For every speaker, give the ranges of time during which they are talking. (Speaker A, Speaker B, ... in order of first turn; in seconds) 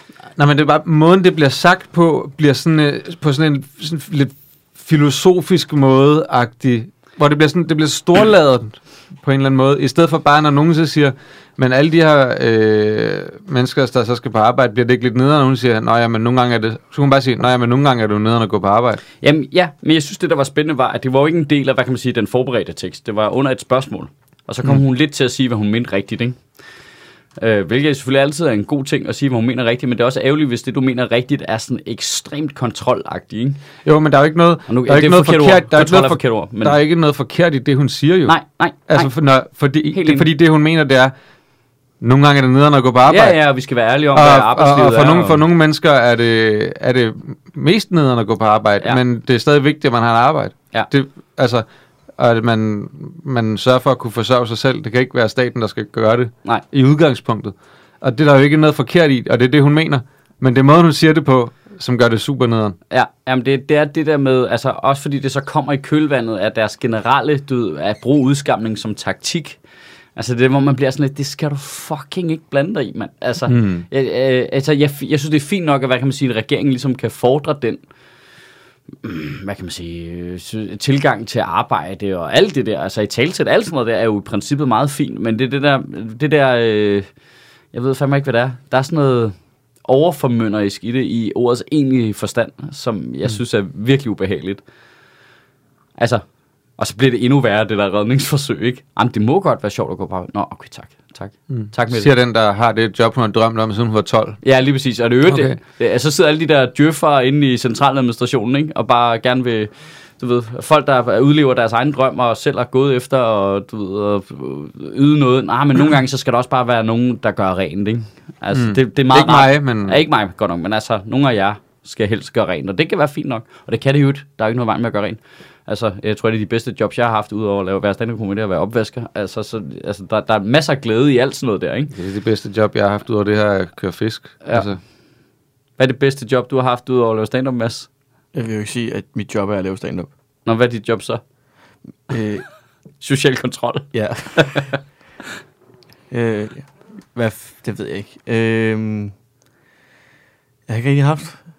Speaker A: 0.4-19.0, 33.8-38.4, 38.9-41.1, 42.0-43.4, 44.1-51.6, 52.2-62.8, 73.5-73.8, 101.5-104.4, 105.3-105.6, 118.5-120.0, 131.9-134.8
Speaker B: 19.2-26.4, 27.4-33.6, 34.7-36.8, 38.3-39.1, 39.9-40.3, 43.1-45.4, 62.9-69.6, 70.2-77.8, 79.0-87.1, 87.7-94.6, 96.0-96.2, 96.8-102.1, 104.4-131.9, 135.8-137.9, 140.4-141.2, 143.0-144.7
Speaker C: 138.3-140.1, 142.1-142.4, 143.9-144.7, 146.1-149.1, 150.7-151.4